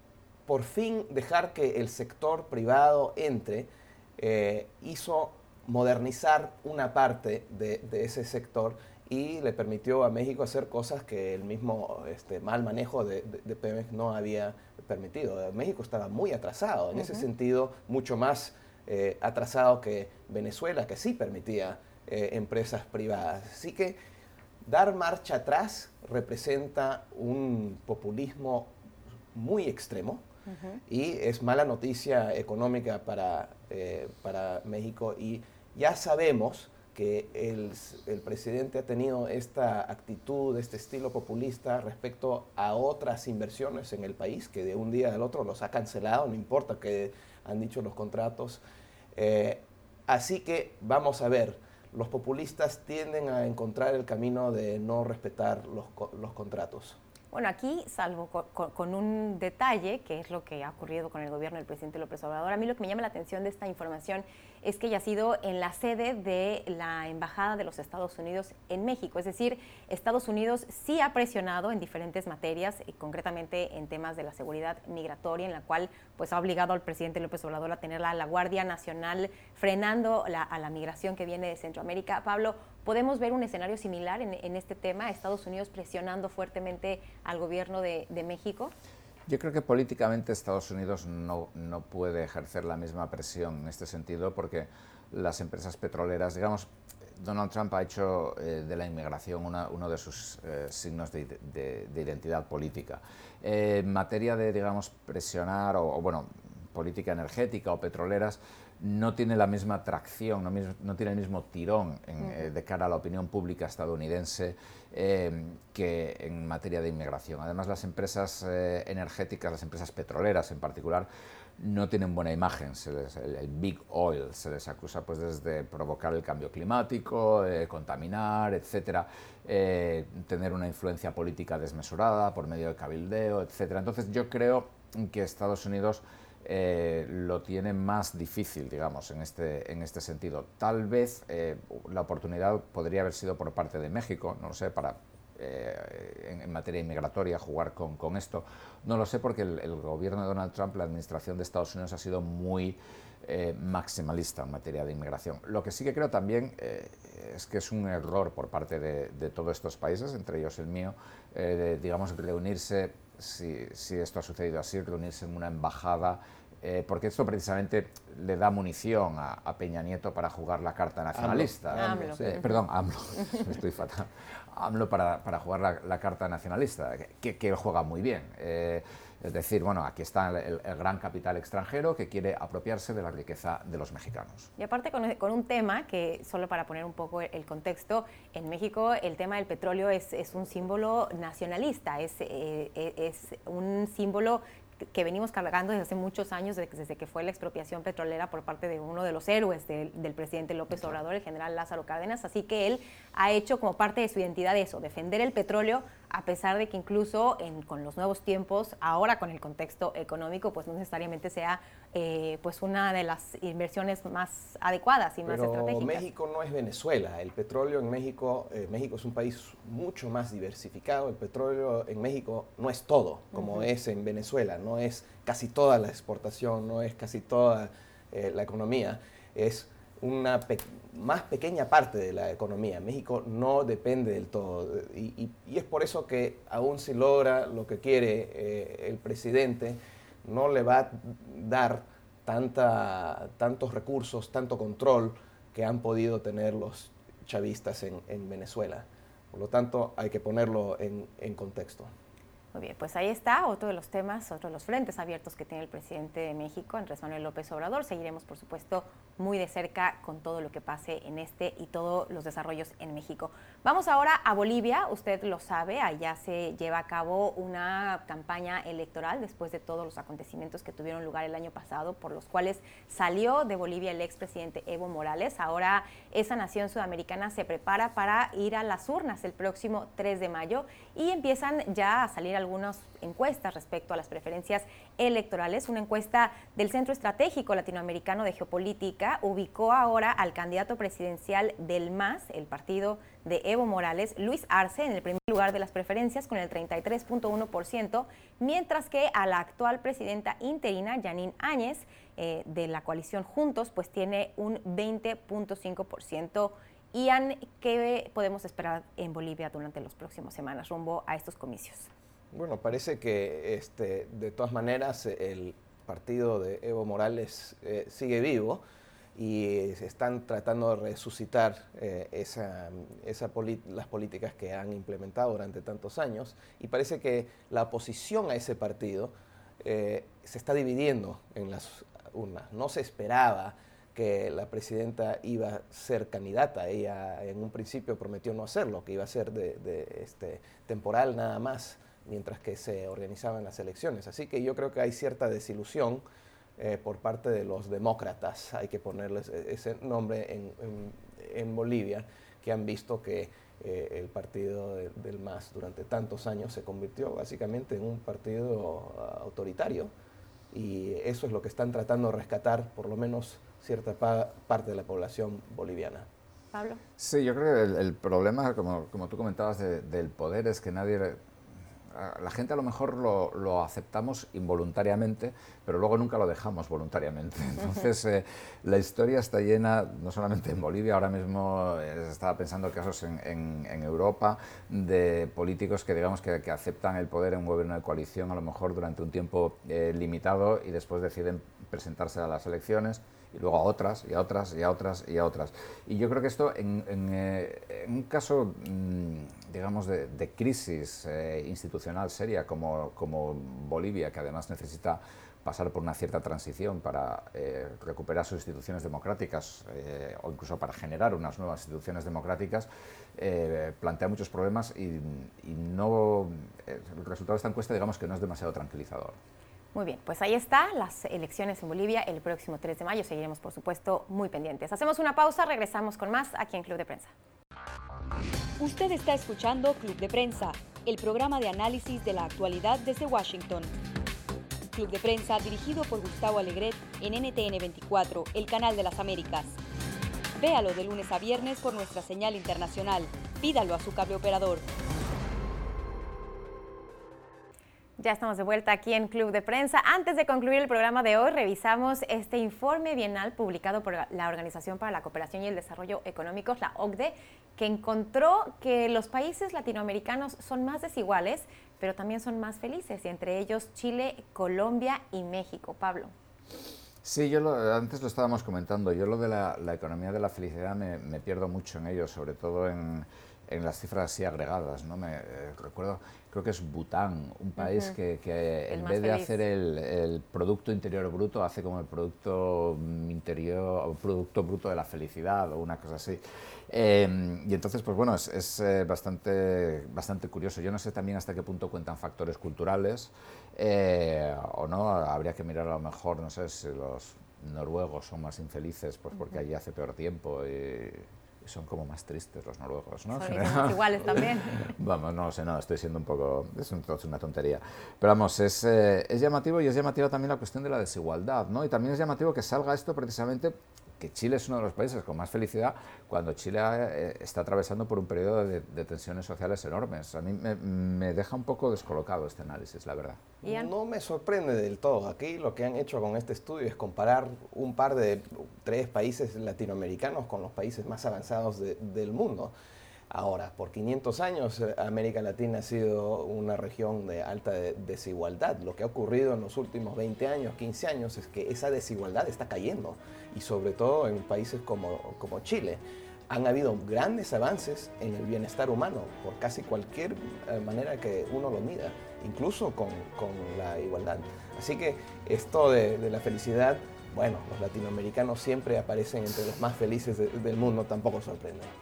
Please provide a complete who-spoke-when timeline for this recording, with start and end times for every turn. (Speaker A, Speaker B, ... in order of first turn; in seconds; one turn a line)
Speaker A: 0.5-24.0
Speaker B: 17.0-17.2
Speaker A: 24.6-28.8
Speaker A: 29.3-30.2
Speaker B: 30.5-30.8
Speaker A: 30.9-48.6
Speaker A: 49.1-57.0
Speaker B: 57.3-88.7
Speaker C: 89.3-121.1
Speaker C: 121.6-184.5
Speaker A: 171.1-172.4
Speaker B: 171.8-172.6
Speaker B: 184.6-216.1
Speaker A: 215.3-251.9
Speaker B: 223.4-223.6
Speaker B: 252.5-311.9
Speaker A: 312.3-318.6
Speaker A: 319.1-346.0
Speaker A: 346.6-359.9
Speaker A: 360.5-366.1
Speaker B: 366.5-366.8
Speaker C: 367.0-371.2
Speaker C: 371.9-419.2
Speaker B: 419.7-427.1
Speaker D: 428.6-433.7
Speaker D: 434.7-439.6
Speaker D: 440.4-444.7
Speaker B: 448.0-466.1
Speaker C: 467.0-523.2
Speaker B: 477.6-477.9
Speaker B: 478.7-479.4
Speaker B: 503.1-504.6
Speaker A: 523.4-532.5
Speaker B: 523.4-523.7
Speaker A: 533.1-561.7